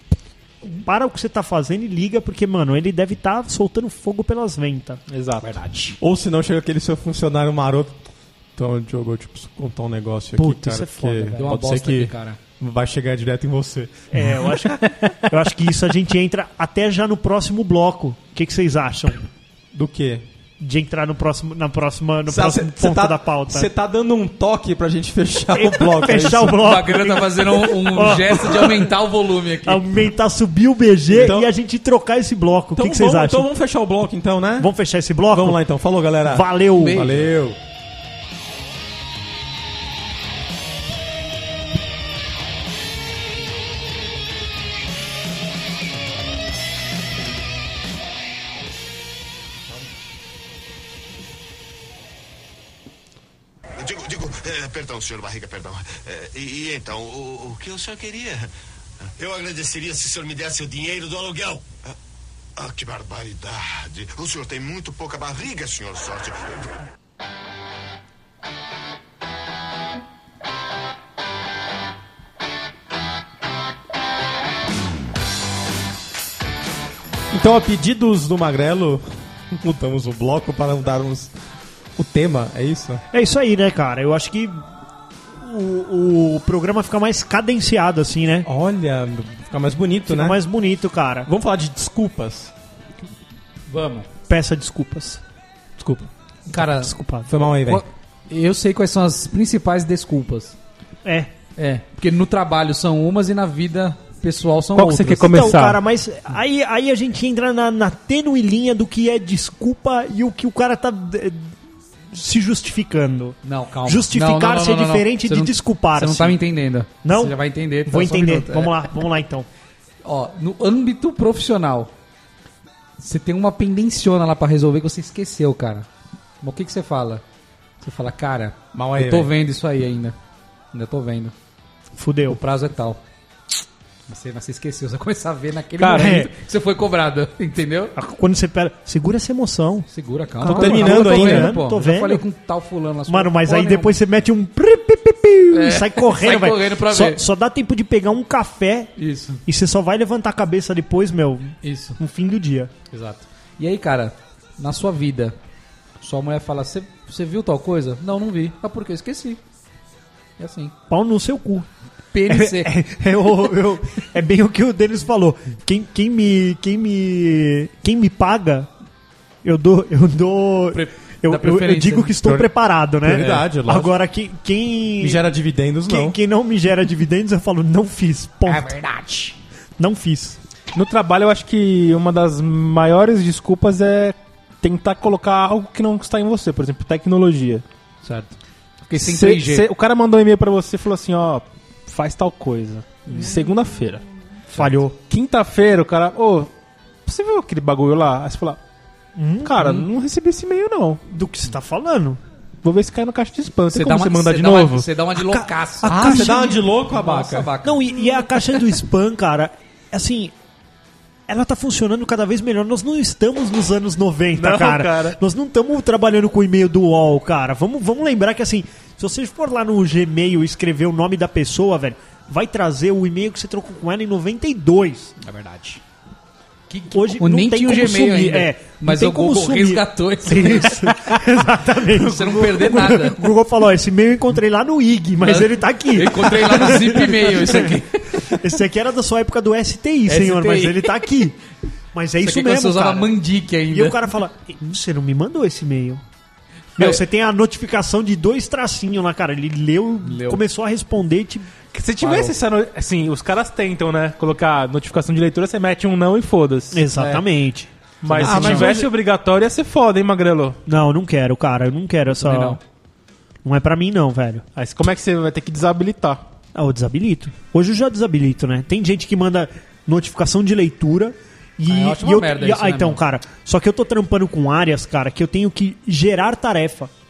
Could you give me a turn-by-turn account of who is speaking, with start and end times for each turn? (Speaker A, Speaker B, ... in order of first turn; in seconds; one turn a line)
Speaker A: 0.6-5.0
Speaker B: 5.1-5.5
Speaker C: 5.4-6.0
Speaker D: 6.0-8.0
Speaker D: 8.6-14.3
Speaker A: 10.4-11.4
Speaker C: 11.3-12.4
Speaker A: 14.1-19.2
Speaker D: 19.7-20.2
Speaker A: 20.6-23.7
Speaker D: 22.3-26.7
Speaker A: 25.5-28.9
Speaker C: 26.4-29.8
Speaker A: 29.6-33.5
Speaker D: 31.1-31.5
Speaker D: 32.8-34.7
Speaker A: 34.6-35.6
Speaker D: 35.3-37.6
Speaker A: 36.2-37.1
Speaker C: 36.8-37.3
Speaker E: 53.8-58.5
Speaker E: 59.1-61.9
Speaker E: 62.6-66.7
Speaker D: 77.3-81.3
Speaker D: 82.0-83.0
Speaker A: 83.1-84.6
Speaker A: 85.4-88.5
Speaker D: 88.4-90.4
Speaker A: 90.1-91.3
Speaker D: 91.2-92.5
Speaker C: 93.7-94.1
Speaker A: 94.3-95.2
Speaker D: 95.8-96.1
Speaker C: 96.5-96.9
Speaker A: 96.5-97.4
Speaker D: 97.3-97.8
Speaker C: 97.7-100.5
Speaker A: 101.0-101.3
Speaker C: 101.6-105.4
Speaker B: 104.8-105.8
Speaker A: 105.3-111.5
Speaker A: 112.1-116.4
Speaker C: 113.4-118.7
Speaker A: 117.0-119.5
Speaker C: 120.0-121.9
Speaker C: 123.0-125.9
Speaker C: 126.4-127.2
Speaker C: 127.8-130.1
Speaker D: 128.7-129.3
Speaker C: 130.7-131.3
Speaker A: 131.9-132.4
Speaker C: 132.3-133.0
Speaker C: 134.1-137.9
Speaker B: 135.8-136.3
Speaker A: 135.9-136.3
Speaker A: 137.9-139.9
Speaker C: 139.9-143.9
Speaker A: 140.4-142.2
Speaker D: 140.4-141.5
Speaker A: 143.1-148.9
Speaker C: 145.5-147.2
Speaker C: 149.0-149.4
Speaker A: 149.4-152.7
Speaker C: 151.6-152.0
Speaker C: 152.9-155.3
Speaker C: 156.0-159.4
Speaker C: 160.4-160.7
Speaker A: 160.9-161.7
Speaker C: 162.1-162.7
Speaker A: 162.3-168.7
Speaker A: 169.4-175.2
Speaker C: 170.7-172.2
Speaker D: 173.0-173.9
Speaker D: 175.0-176.2
Speaker A: 175.8-178.8
Speaker C: 178.4-179.3
Speaker A: 179.8-180.4
Speaker B: 180.7-187.6
Speaker C: 188.0-188.3
Speaker C: 188.9-189.7
Speaker B: 189.0-194.0
Speaker C: 193.1-193.3
Speaker A: 194.5-194.9
Speaker B: 195.1-196.5
Speaker B: 197.1-198.6
Speaker A: 199.2-199.5
Speaker B: 199.4-201.0
Speaker C: 199.6-199.8
Speaker A: 201.1-202.2
Speaker B: 202.6-204.9
Speaker C: 203.7-207.9
Speaker A: 205.2-206.6
Speaker D: 205.8-207.5
Speaker A: 207.6-210.3
Speaker A: 211.3-225.1
Speaker B: 214.3-215.2
Speaker C: 225.2-225.8
Speaker C: 226.7-231.1
Speaker A: 226.9-241.3
Speaker C: 231.9-233.2
Speaker C: 235.2-238.3
Speaker C: 240.1-240.9
Speaker A: 241.9-243.1
Speaker C: 242.2-244.0
Speaker A: 243.7-246.0
Speaker A: 246.8-251.5
Speaker C: 250.0-250.4
Speaker B: 251.7-257.2
Speaker C: 252.0-252.3
Speaker A: 256.7-258.8
Speaker B: 258.0-260.6
Speaker C: 258.2-258.7
Speaker D: 258.2-258.9
Speaker A: 260.7-262.6
Speaker C: 262.1-262.6
Speaker A: 263.4-264.4
Speaker B: 264.6-266.2
Speaker A: 266.5-276.9
Speaker C: 271.7-273.0